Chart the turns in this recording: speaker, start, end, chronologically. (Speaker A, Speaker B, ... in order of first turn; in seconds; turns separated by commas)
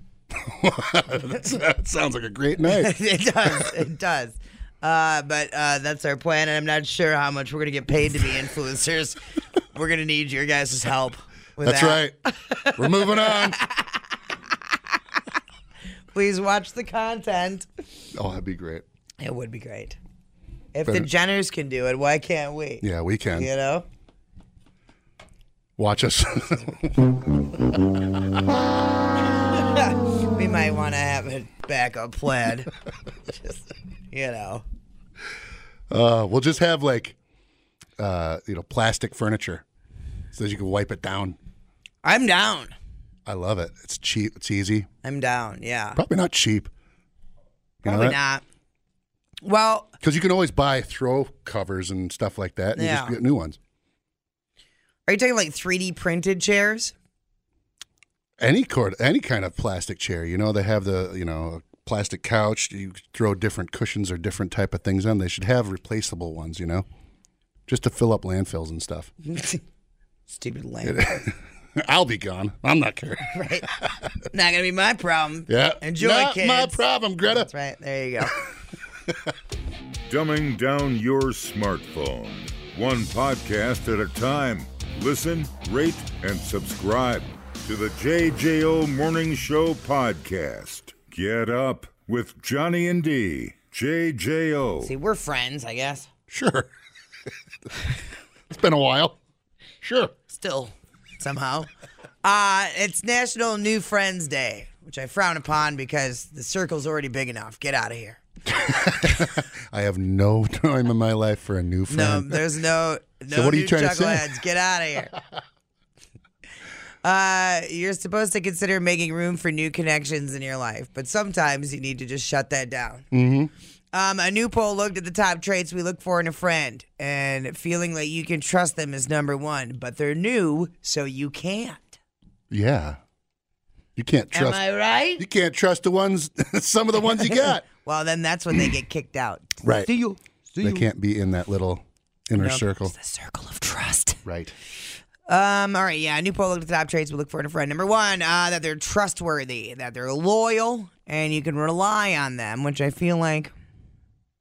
Speaker A: 0.3-3.7, Speaker B: 2.7-9.2, Speaker B: 9.7-14.0, Speaker A: 11.6-12.2, Speaker A: 12.8-13.6, Speaker B: 16.1-17.7, Speaker A: 18.1-18.9, Speaker B: 19.2-20.0, Speaker B: 20.7-23.9, Speaker A: 22.8-23.5, Speaker A: 25.8-27.0, Speaker B: 29.5-32.7, Speaker B: 33.3-33.6, Speaker B: 34.1-34.6, Speaker A: 35.9-37.2, Speaker A: 38.0-39.6, Speaker A: 40.3-41.4, Speaker B: 42.0-42.7, Speaker A: 43.3-44.9, Speaker B: 45.0-46.0, Speaker A: 46.0-46.7, Speaker A: 47.8-48.2, Speaker B: 47.9-48.4, Speaker B: 49.4-49.9, Speaker A: 50.0-53.6, Speaker B: 52.8-53.2, Speaker B: 55.1-56.9, Speaker A: 58.4-66.9, Speaker A: 67.7-69.1, Speaker B: 69.2-69.6, Speaker B: 70.3-71.2, Speaker A: 70.8-74.1, Speaker B: 73.2-73.7, Speaker B: 74.3-78.4, Speaker A: 75.5-77.5, Speaker C: 80.1-94.9, Speaker B: 94.8-96.1, Speaker A: 96.3-96.7, Speaker A: 98.5-99.2, Speaker A: 99.8-100.1, Speaker B: 100.3-101.7, Speaker B: 102.2-108.2, Speaker A: 108.6-112.5, Speaker B: 111.9-115.1, Speaker A: 113.3-114.4, Speaker B: 117.0-123.0, Speaker A: 123.1-123.5, Speaker B: 123.9-132.0, Speaker A: 132.5-133.0, Speaker A: 134.0-134.6, Speaker B: 134.3-135.2, Speaker A: 135.2-137.7, Speaker B: 137.3-140.8, Speaker A: 139.6-139.9, Speaker A: 140.6-142.9, Speaker B: 142.4-144.2, Speaker A: 144.2-144.5, Speaker B: 145.3-153.5